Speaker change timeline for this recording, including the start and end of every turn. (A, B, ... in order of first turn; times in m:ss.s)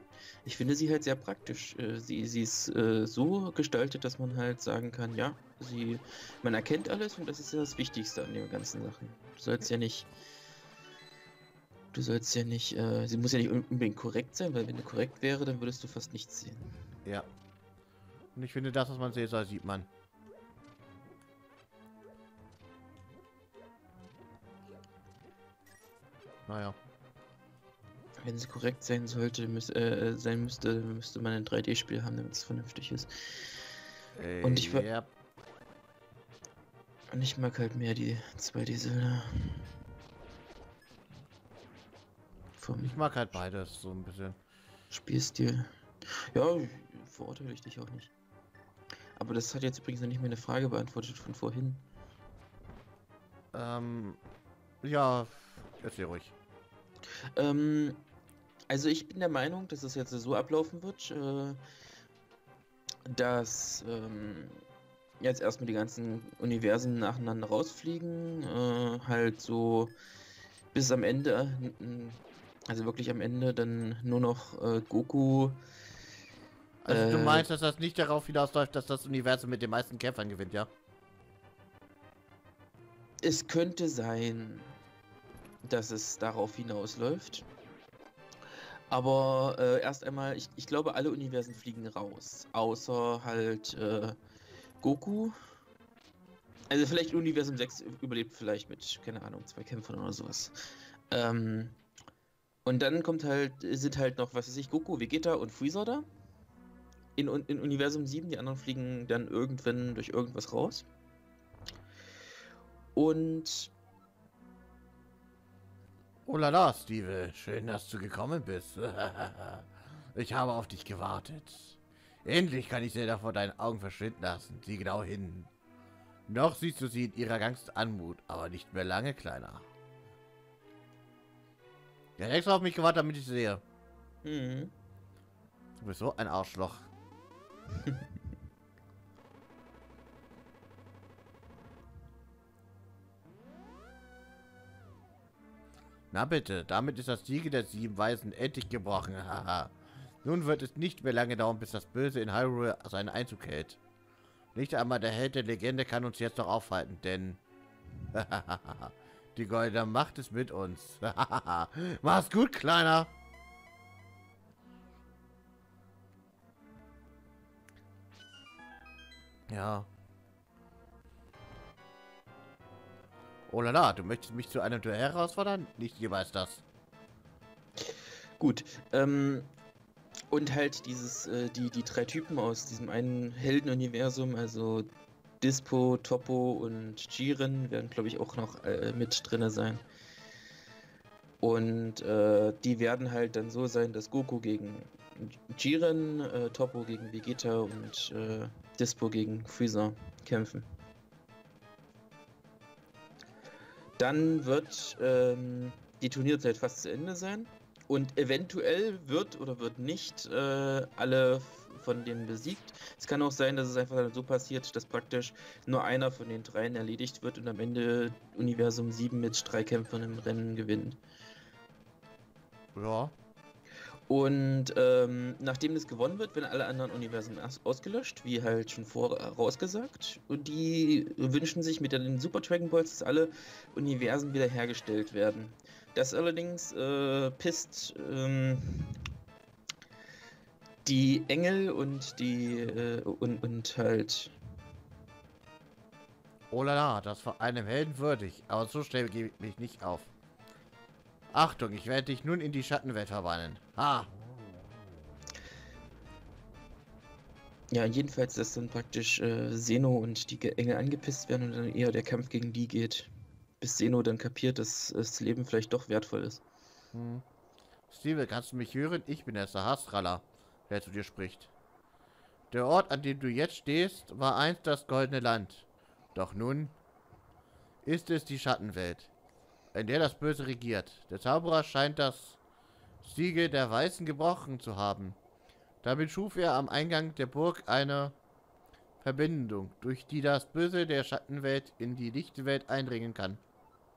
0:00.4-0:10.1 A
0:11.9-0:16.8 A
0:18.4-0:19.9 B
0:26.5-0:26.8 B
0:28.2-0:33.6 A
0:34.1-0:35.1 B
0:34.4-0:34.9 A
0:37.1-0:39.7 A
0:42.6-0:43.0 A
0:42.8-0:44.4 B
0:44.9-0:48.1 A
0:49.2-0:51.8 A
0:53.5-0:54.2 B
0:54.8-0:56.3 B
0:57.3-0:58.0 A
0:58.7-1:01.6 A
1:03.0-1:04.6 A
1:05.2-1:09.9 A
1:10.7-1:15.6 A
1:16.8-1:20.7 B
1:16.9-1:17.5 A
1:23.2-1:24.7 A
1:25.6-1:27.5 A
1:28.9-1:34.2 A
1:34.8-1:35.3 A
1:36.7-1:40.5 A
1:41.1-1:41.8 A
1:42.6-1:46.0 A
1:47.2-1:50.9 A
1:52.9-1:53.7 A
1:56.2-2:05.5 B
2:06.3-2:09.6 B
2:12.2-2:13.6 B
2:14.2-2:14.7 A
2:15.8-2:16.9 B
2:26.1-2:33.8 B
2:34.5-2:37.4 B
2:38.1-2:43.1 B
2:49.5-2:49.9 B
2:53.5-2:56.6 B
2:57.8-2:59.5 A
3:00.3-3:04.9 A
3:05.4-3:09.8 A
3:11.4-3:20.7 A
3:24.0-3:41.0 A
3:42.7-3:43.1 B
3:44.1-3:59.0 A
4:00.8-4:04.4 A
4:06.5-4:10.1 B
4:11.3-4:14.1 B
4:17.7-4:26.4 A
4:26.9-4:27.2 B
4:27.9-4:31.5 B
4:32.5-4:36.7 B
4:37.8-4:39.1 B
4:39.7-4:42.4 B
4:43.0-4:45.2 B
4:45.8-4:48.2 B
4:49.0-4:53.4 B